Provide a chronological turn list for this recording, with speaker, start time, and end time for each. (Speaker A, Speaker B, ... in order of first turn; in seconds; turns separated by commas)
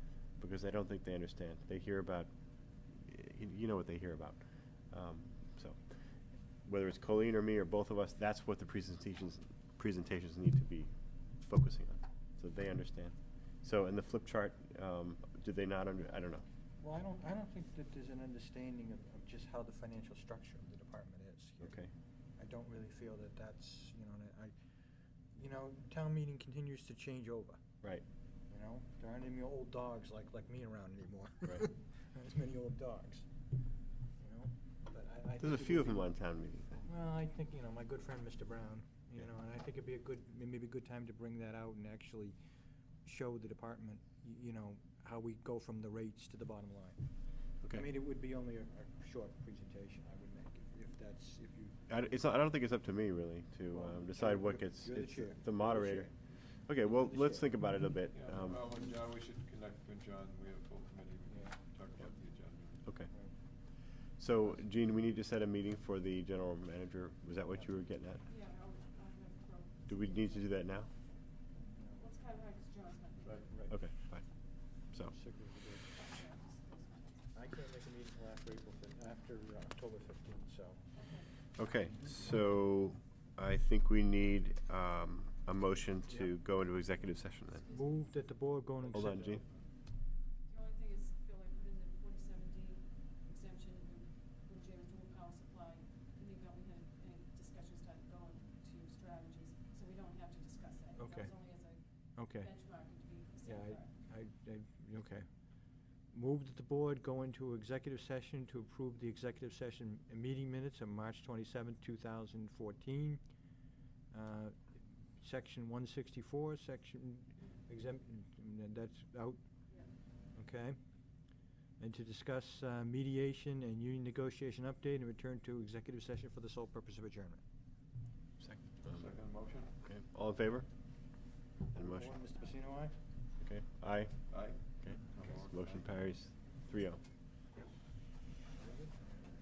Speaker A: 0.4-2.3, Speaker A: 2.9-4.4, Speaker A: 4.9-5.8, Speaker A: 6.7-16.4, Speaker B: 16.8-21.8, Speaker A: 21.6-21.9, Speaker B: 22.4-24.5, Speaker B: 25.3-27.6, Speaker B: 28.5-33.3, Speaker B: 34.2-36.0, Speaker A: 35.4-36.8, Speaker B: 36.8-42.3, Speaker B: 43.0-47.0, Speaker B: 47.7-51.8, Speaker A: 51.9-56.1, Speaker B: 53.7-56.1, Speaker A: 56.7-58.6, Speaker B: 56.8-57.5, Speaker C: 58.1-62.8, Speaker B: 61.3-61.6, Speaker A: 62.9-63.1, Speaker A: 64.2-68.2, Speaker D: 68.2-70.5, Speaker A: 69.9-70.9, Speaker B: 71.5-72.0, Speaker D: 72.0-73.4, Speaker A: 73.7-74.2, Speaker B: 75.0-75.9, Speaker D: 76.0-77.2, Speaker B: 77.3-80.8, Speaker D: 80.9-81.3, Speaker A: 81.6-87.7, Speaker D: 87.6-88.1, Speaker B: 87.7-89.4, Speaker A: 88.9-89.4, Speaker C: 89.0-89.5, Speaker D: 90.5-101.8, Speaker B: 101.0-101.3, Speaker B: 102.2-102.5, Speaker D: 102.4-103.9, Speaker B: 103.4-105.2, Speaker B: 106.1-113.2, Speaker B: 114.1-119.4, Speaker B: 120.3-120.8, Speaker B: 121.8-127.4, Speaker A: 128.4-129.0, Speaker C: 128.8-129.7, Speaker A: 129.8-130.8, Speaker A: 131.7-132.1, Speaker B: 131.7-132.9, Speaker A: 133.4-137.0, Speaker C: 134.3-135.9, Speaker B: 138.6-139.2